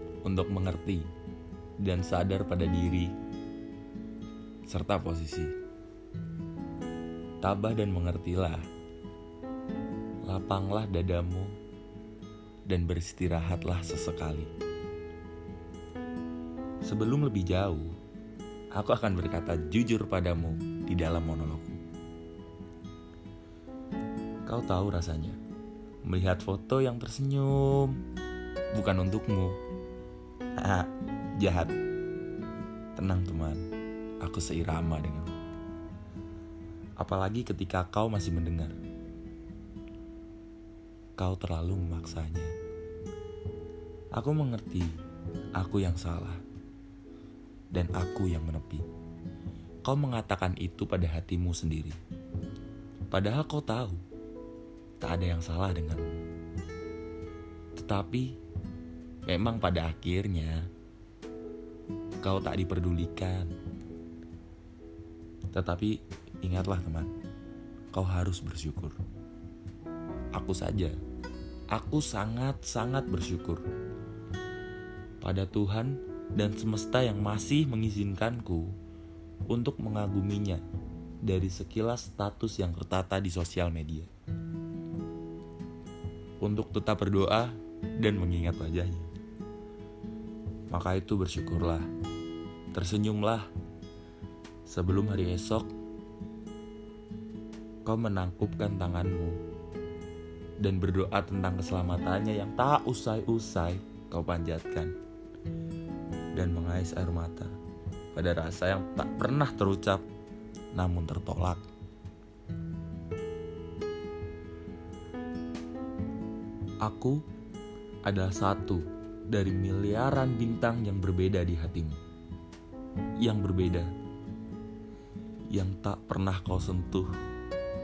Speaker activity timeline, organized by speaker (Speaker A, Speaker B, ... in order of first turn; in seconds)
Speaker A: 0.2-1.1, 1.8-3.1, 4.7-5.5, 7.4-8.7, 10.2-11.5, 12.7-14.5, 16.8-17.9, 18.7-21.8, 24.4-25.4, 26.0-28.0, 28.7-29.6, 30.6-31.8, 33.0-33.6, 34.2-35.3, 37.0-38.8, 41.2-42.5, 44.1-45.0, 45.5-46.4, 47.7-48.8, 49.8-52.0, 53.1-54.0, 55.0-56.1, 57.8-58.4, 59.2-60.7, 62.2-63.5, 65.5-67.1, 67.9-69.0, 70.3-71.0, 71.7-73.6, 75.2-78.8, 79.5-80.6, 81.2-84.1, 86.4-89.1, 90.7-91.9, 92.7-93.5, 94.7-95.7, 97.8-99.4, 100.6-104.9, 106.3-107.5, 108.1-110.0, 110.7-111.6, 116.8-117.2, 118.0-122.0, 123.2-123.9, 125.5-127.1